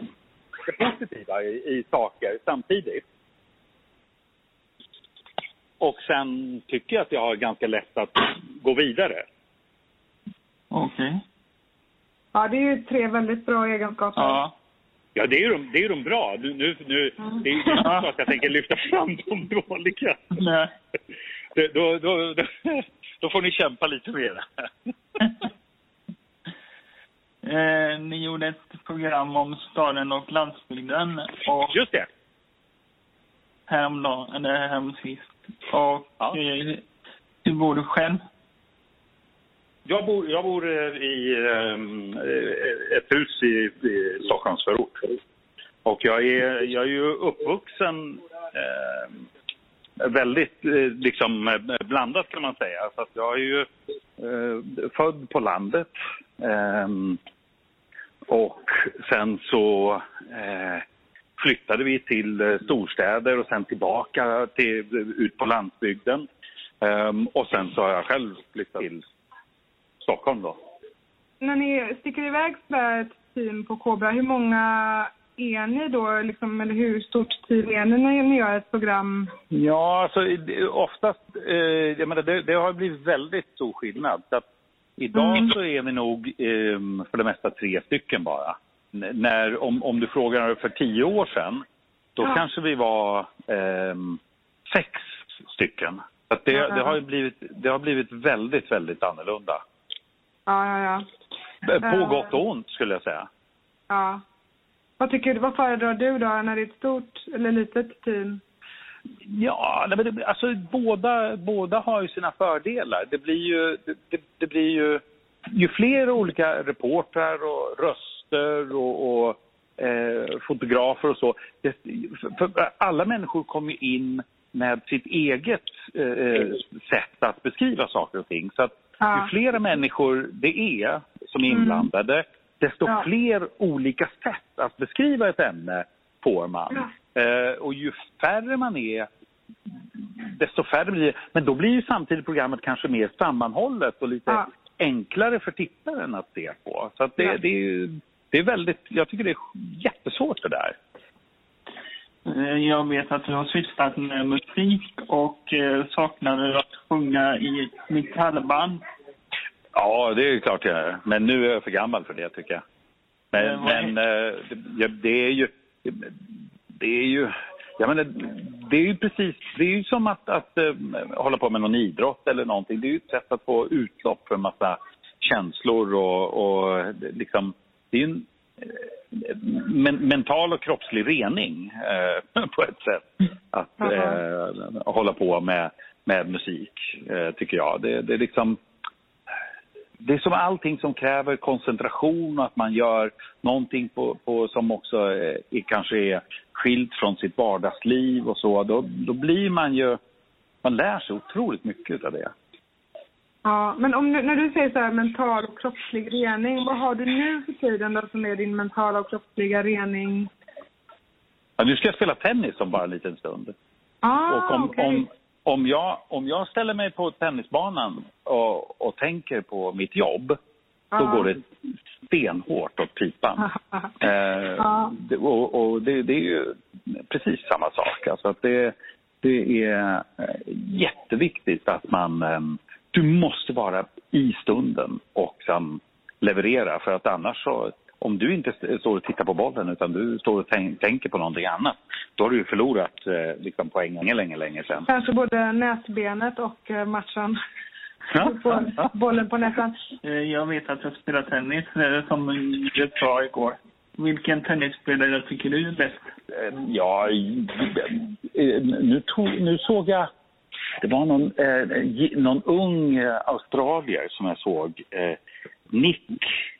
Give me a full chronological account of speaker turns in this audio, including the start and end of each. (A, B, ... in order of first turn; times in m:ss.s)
0:00.6-0:03.0 A
0:05.8-0:09.2 A
0:10.7-0:11.2 B
0:12.3-0:14.4 C
0:14.2-0:14.5 B
0:15.1-0:20.2 A
0:17.8-0:18.1 B
0:20.3-0:20.7 B
0:21.5-0:24.4 A
0:27.4-0:31.7 B
0:31.7-0:32.1 A
0:33.7-0:36.8 B
0:37.4-0:38.2 B
0:39.8-0:45.0 A
0:45.8-0:49.1 A
0:50.0-0:53.7 A
0:54.2-0:57.2 A
0:58.3-1:00.8 A
1:01.4-1:06.2 A
1:06.8-1:09.0 A
1:10.0-1:10.6 A
1:11.4-1:19.3 C
1:19.5-1:24.4 A
1:25.0-1:31.6 A
1:25.1-1:25.5 C
1:32.2-1:39.6 A
1:36.5-1:36.9 C
1:40.4-1:41.0 C
1:41.6-1:43.3 A
1:41.8-1:42.3 C
1:43.9-1:44.2 C
1:45.0-1:48.4 C
1:49.2-1:55.0 A
1:55.5-2:19.1 A
2:09.0-2:09.3 C
2:11.5-2:11.9 C
2:20.2-2:30.7 A
2:32.2-2:38.8 B
2:39.7-2:42.6 A
2:43.3-2:46.1 A
2:43.3-2:43.9 B
2:46.7-3:08.6 A
3:03.8-3:04.2 C
3:10.0-3:20.0 A
3:20.6-3:22.3 A
3:23.4-3:30.3 C
3:31.6-3:33.5 A
3:34.0-3:35.0 C
3:34.3-3:40.4 A
3:40.9-3:41.3 C
3:41.0-3:41.4 A
3:42.1-4:04.9 A
3:44.6-3:44.9 C
4:04.8-4:07.4 C
4:08.1-4:08.7 A
4:08.1-4:09.8 C
4:10.0-4:16.1 B
4:16.3-4:20.1 A
4:20.8-4:25.2 A
4:25.7-4:26.4 A